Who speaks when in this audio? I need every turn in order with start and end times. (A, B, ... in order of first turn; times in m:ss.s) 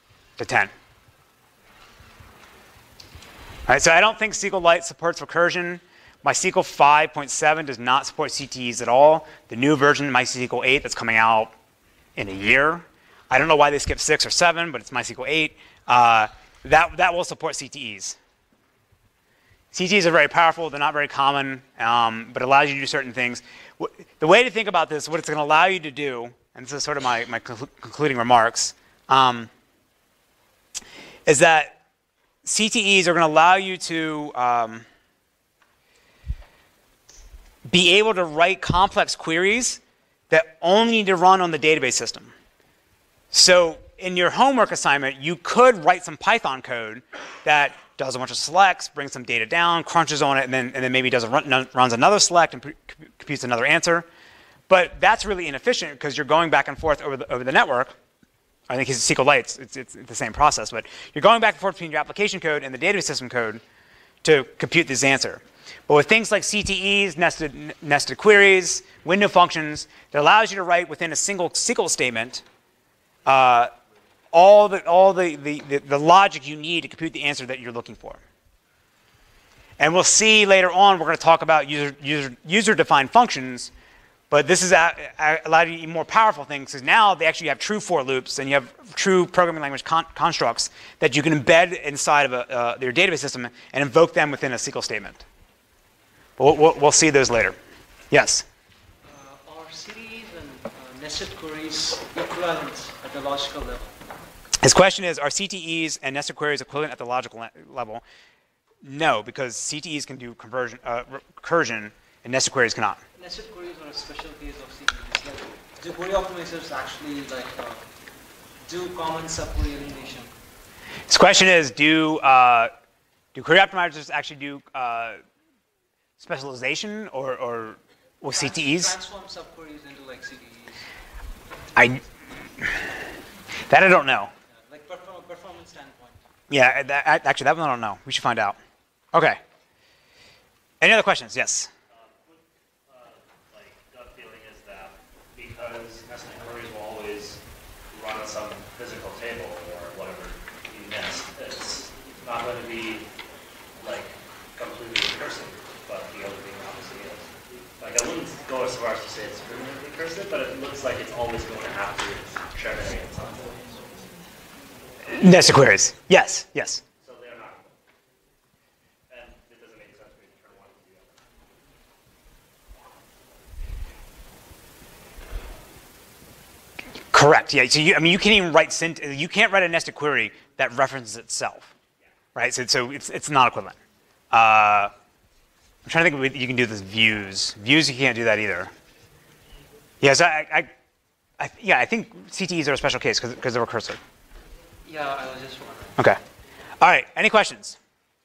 0:00.4-0:00.7 A
0:03.7-0:11.5 A
0:12.2-0:18.2 A
0:19.7-0:29.5 A
0:31.3-0:31.8 A
0:32.4-0:34.8 A
0:37.7-0:42.3 A
0:43.3-0:54.1 A
0:54.7-0:58.0 A
0:58.7-1:03.6 A
1:04.2-1:12.4 A
1:13.3-1:13.7 A
1:14.3-1:18.2 A
1:19.8-1:23.7 A
1:24.3-1:35.2 A
1:36.4-1:37.6 A
1:38.1-1:38.5 A
1:39.1-1:44.0 B
1:44.6-1:48.0 A
1:48.8-1:53.0 A
1:53.2-1:57.8 B
1:58.6-2:00.3 B
2:01.1-2:02.7 A
2:03.4-2:05.2 A
2:06.2-2:08.9 A
2:08.3-2:10.8 B
2:11.8-2:12.0 A
2:13.7-2:14.3 A
2:14.7-2:16.2 B
2:16.5-2:18.6 A
2:19.1-2:19.4 A
2:20.8-2:21.7 A
2:21.9-2:27.4 C
2:27.9-2:33.0 C
2:33.8-2:43.8 C
2:45.1-2:46.8 A
2:47.0-2:47.7 C
2:49.1-2:51.2 C
2:57.1-3:01.7 A
3:02.4-3:03.8 A
3:04.3-3:04.9 A
3:05.8-3:08.7 A
3:10.0-3:10.7 A
3:11.4-3:14.0 A
3:14.8-3:16.0 B
3:16.8-3:17.8 A